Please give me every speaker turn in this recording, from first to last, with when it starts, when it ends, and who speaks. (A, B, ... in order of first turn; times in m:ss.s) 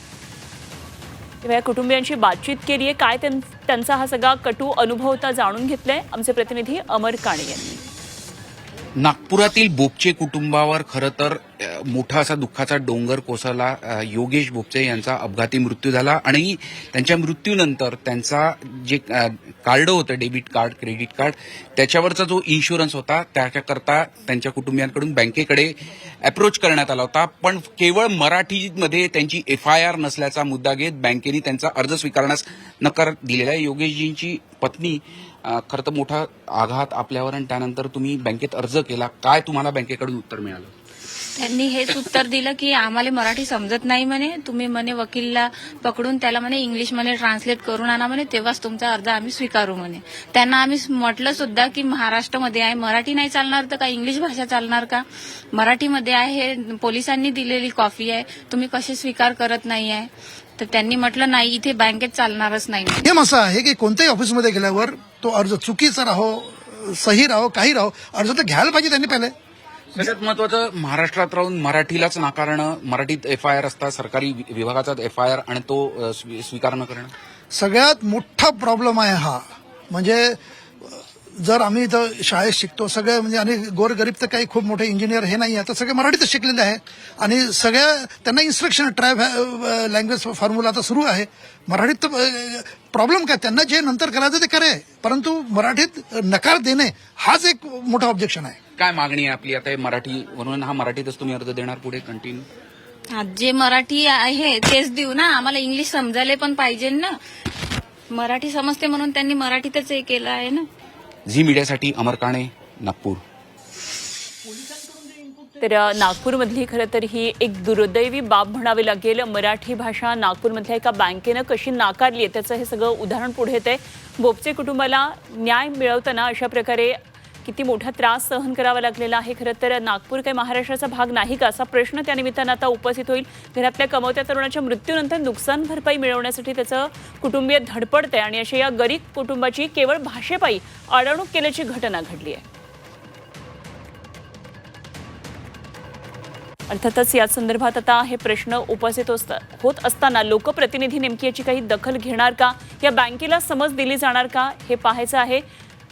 0:01.4-0:07.8 A
0:09.0-0:40.7 B
0:41.4-1:03.1 C
1:03.0-1:09.3 D
1:09.9-1:17.1 B
1:17.5-1:38.6 D
1:38.8-1:42.5 B
1:43.1-1:47.2 C
1:48.1-1:50.7 C
1:51.3-1:53.2 B
1:55.6-2:22.4 A
2:26.7-2:35.4 A